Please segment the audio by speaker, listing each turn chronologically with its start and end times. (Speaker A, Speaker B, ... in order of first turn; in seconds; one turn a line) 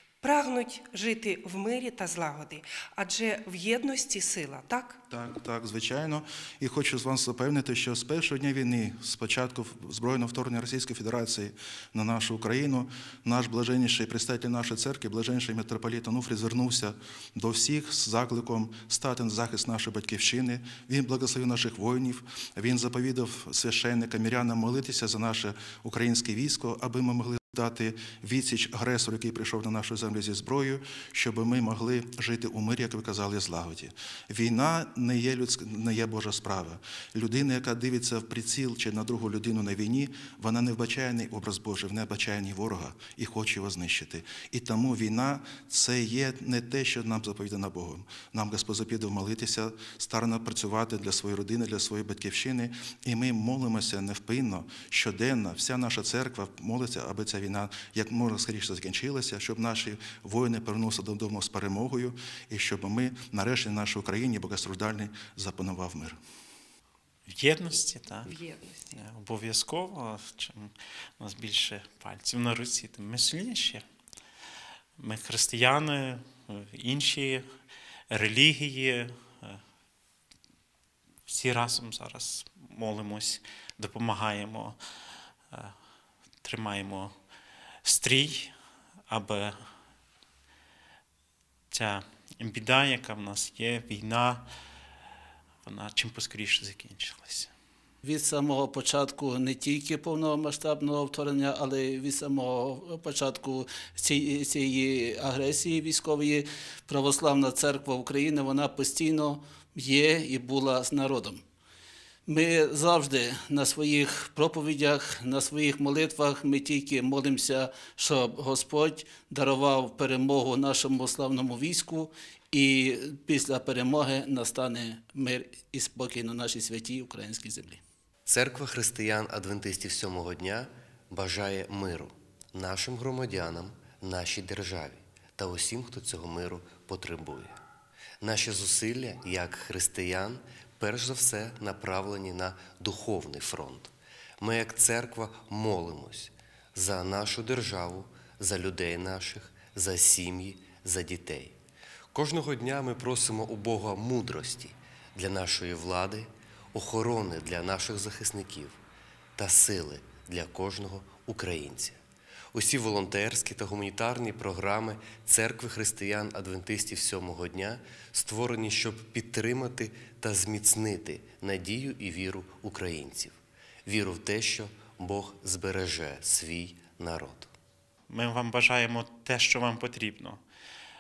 Speaker A: 0.2-5.0
Speaker B: 5.1-66.2
Speaker C: 67.3-68.3
Speaker A: 68.3-68.9
Speaker C: 68.9-73.8
Speaker C: 75.0-77.4
Speaker C: 78.1-79.6
Speaker C: 81.3-84.8
Speaker C: 86.4-87.1
Speaker C: 87.8-88.5
Speaker C: 89.1-89.5
Speaker C: 91.7-94.5
Speaker C: 95.7-97.5
Speaker D: 98.0-111.4
Speaker D: 112.3-127.8
Speaker E: 128.3-137.6
Speaker E: 138.2-151.6
Speaker E: 152.1-158.8
Speaker E: 159.4-162.0
Speaker E: 162.5-177.5
Speaker C: 178.1-180.4